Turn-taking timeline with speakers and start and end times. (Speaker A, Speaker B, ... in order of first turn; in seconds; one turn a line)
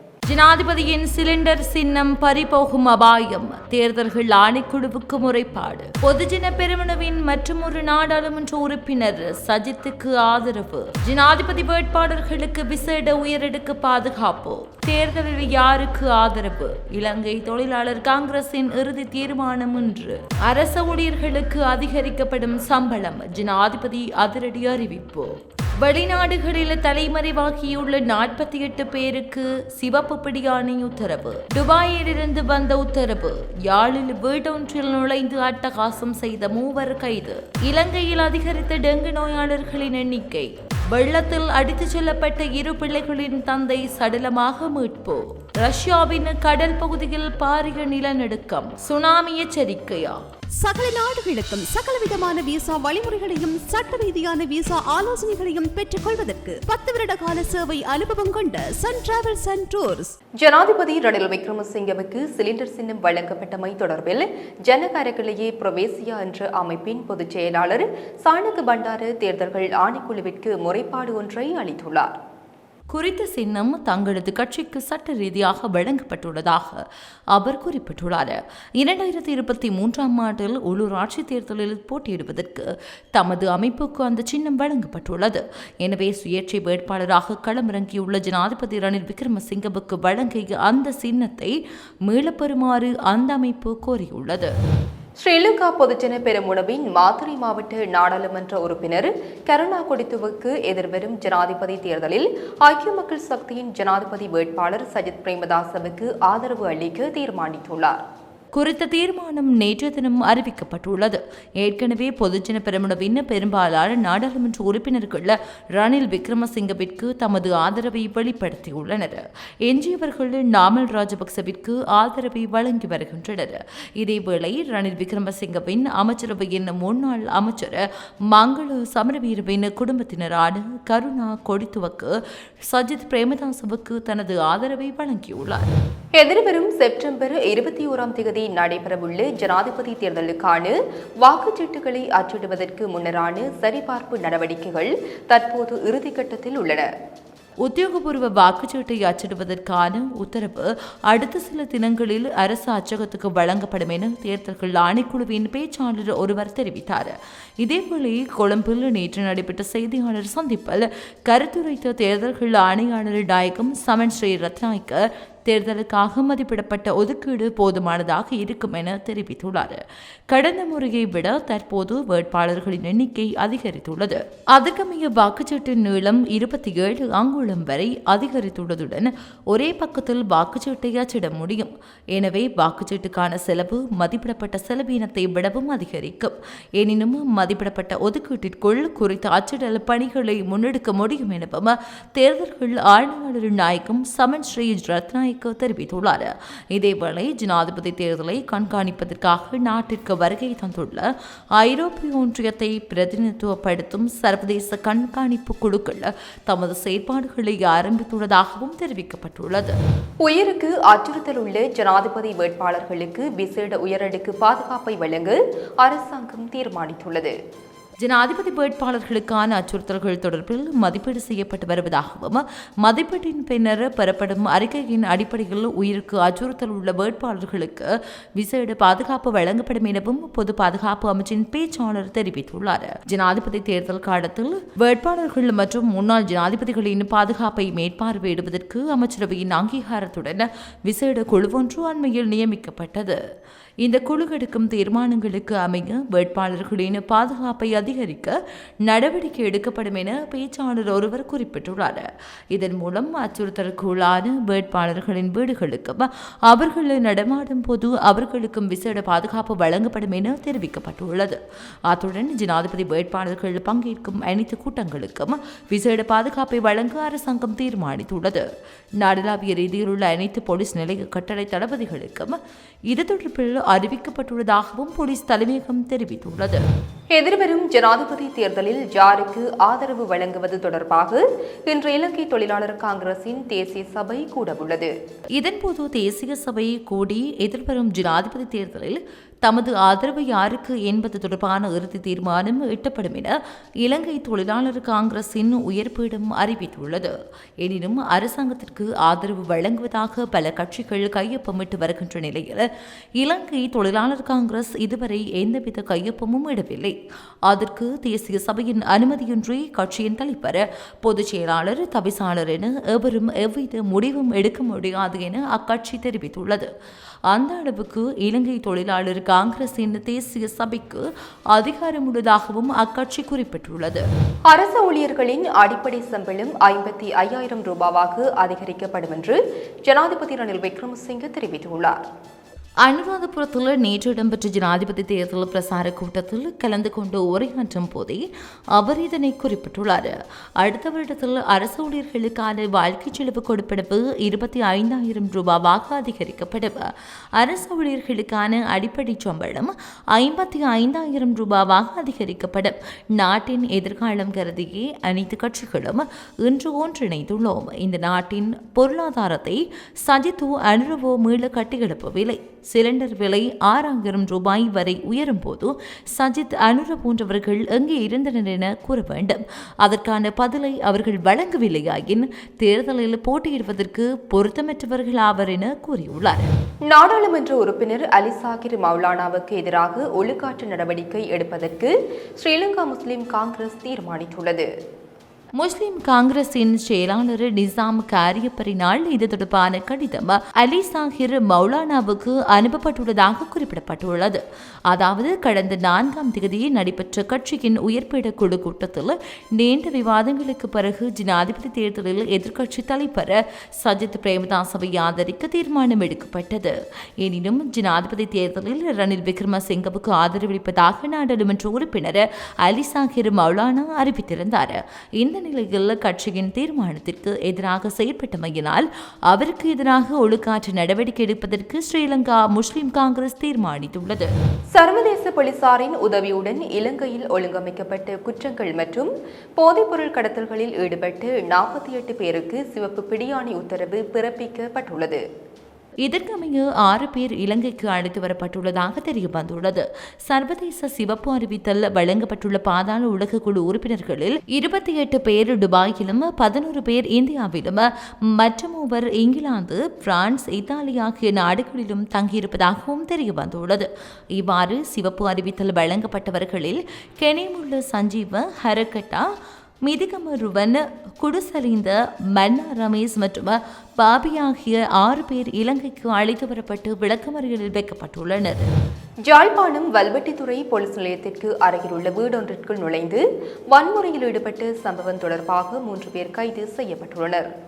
Speaker A: 0.3-50.2
Speaker B: 50.6-60.1
Speaker C: 60.4-72.1
Speaker A: 72.9-76.8
Speaker A: 77.3-91.5
Speaker A: 92.1-94.5
Speaker C: 95.2-108.0
Speaker A: 108.5-132.1
Speaker A: 132.7-135.7
Speaker C: 136.1-146.9
Speaker A: 147.6-201.0
Speaker A: 201.6-209.8
Speaker C: 210.2-217.3
Speaker A: 218.0-227.8
Speaker A: 228.4-243.2
Speaker A: 243.8-268.4
Speaker A: 269.0-272.4
Speaker A: 272.9-276.6
Speaker C: 277.1-284.9
Speaker A: 285.4-302.6
Speaker A: 303.2-306.9
Speaker A: 307.5-316.7
Speaker A: 317.3-324.0
Speaker C: 324.5-332.0
Speaker A: 332.8-338.2
Speaker A: 338.7-346.8
Speaker A: 347.4-376.5
Speaker C: 376.9-384.7
Speaker A: 385.6-424.3
Speaker C: 424.7-435.2
Speaker A: 436.0-459.2
Speaker A: 459.8-468.7
Speaker C: 469.3-477.5